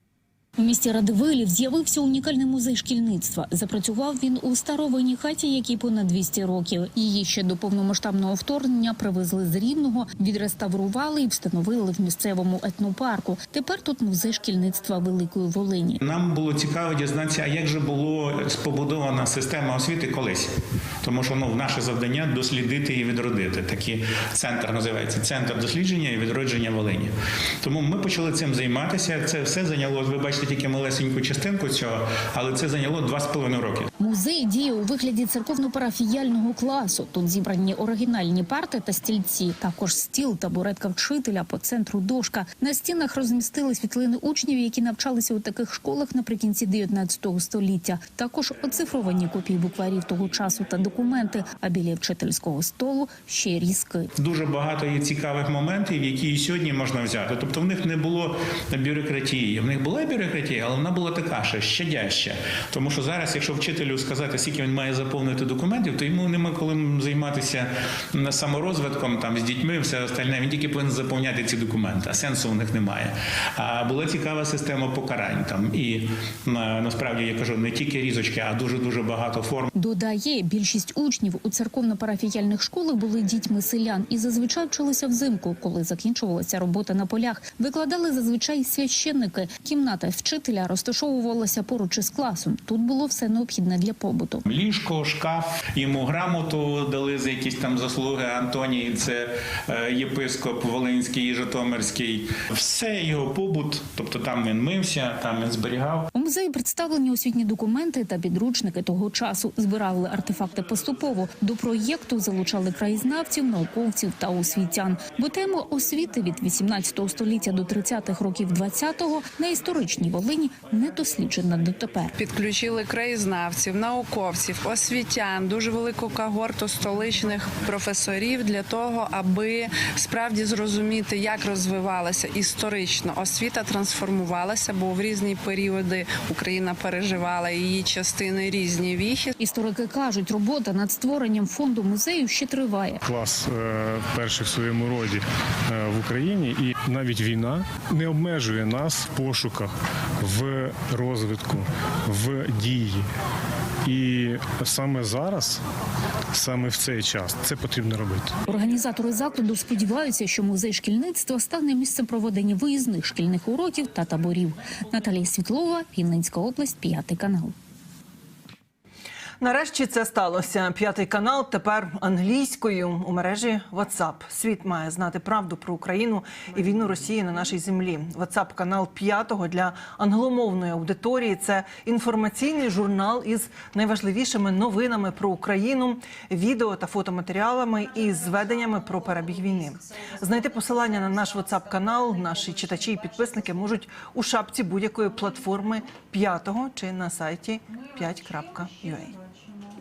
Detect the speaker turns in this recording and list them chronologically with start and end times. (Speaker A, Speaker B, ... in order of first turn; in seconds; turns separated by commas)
Speaker A: 0.6-16.0, Speaker B: 16.0-33.9, Speaker A: 34.0-54.1, Speaker B: 54.2-79.7, Speaker A: 79.7-94.4, Speaker B: 94.5-106.1, Speaker A: 106.1-122.1, Speaker C: 122.2-139.3, Speaker A: 139.4-143.0, Speaker D: 143.0-153.1, Speaker D: 153.8-155.6, Speaker D: 156.3-158.3, Speaker A: 158.5-167.5, Speaker E: 169.4-199.2